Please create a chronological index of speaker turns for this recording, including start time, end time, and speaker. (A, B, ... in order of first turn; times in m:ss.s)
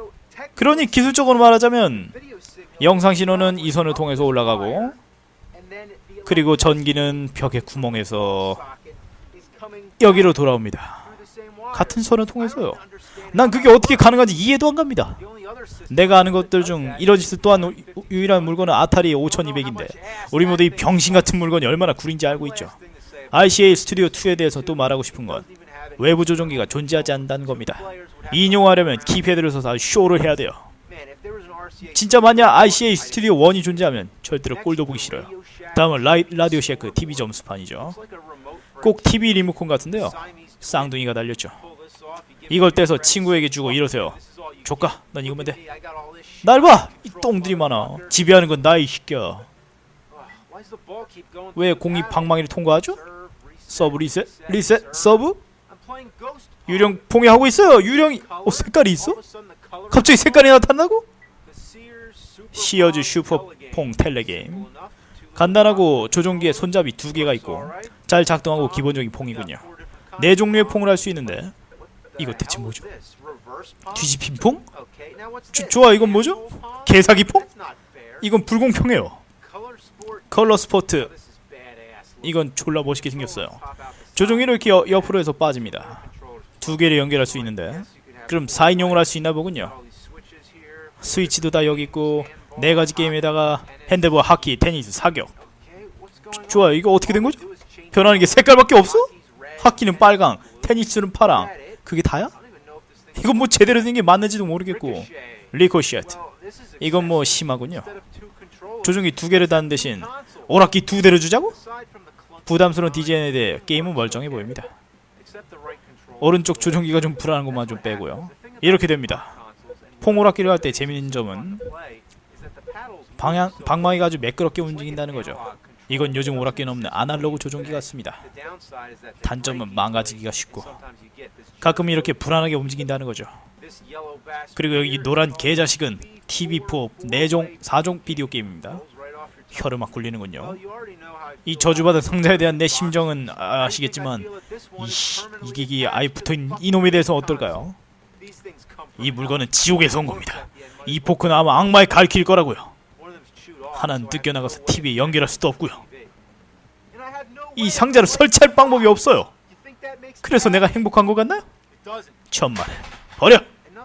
0:00.6-0:02.1 A
0:02.8-0:05.0 A
0:06.2-0:08.6 A
0:10.0-0:11.1 A
0:11.7-0:15.2 A
0:15.9-0:22.7 A
0:23.3-0:25.4 A
0:26.0-0:30.6 A
0:31.9-0:38.0 A
0:38.8-0:41.6 A
0:42.5-0:45.6 A
0:46.4-0:49.5 A
0:51.5-0:53.0 A
0:53.7-0:55.4 A
0:56.7-0:59.2 A
0:59.9-1:01.0 A
1:02.5-1:04.7 A
1:05.4-1:09.6 A
1:10.2-1:11.5 A
1:12.2-1:12.9 A
1:13.9-1:14.6 A
1:15.5-1:17.5 A
1:18.2-1:19.2 A
1:20.3-1:21.1 A
1:22.2-1:23.6 A
1:24.1-1:26.0 A
1:26.6-1:29.7 A
1:31.0-1:35.3 A
1:36.3-1:42.3 A
1:43.1-1:46.2 A
1:46.8-1:47.9 A
1:48.8-1:51.6 A
1:52.4-1:54.7 A
1:56.2-1:59.4 A
2:00.0-2:01.6 A
2:03.2-2:08.2 A
2:09.2-2:10.8 A
2:11.6-2:13.3 A
2:14.5-2:18.8 A
2:19.5-2:20.6 A
2:21.4-2:27.8 A
2:29.0-2:32.7 A
2:33.7-2:35.8 A
2:37.5-2:39.3 A
2:40.2-2:41.4 A
2:42.3-2:43.5 A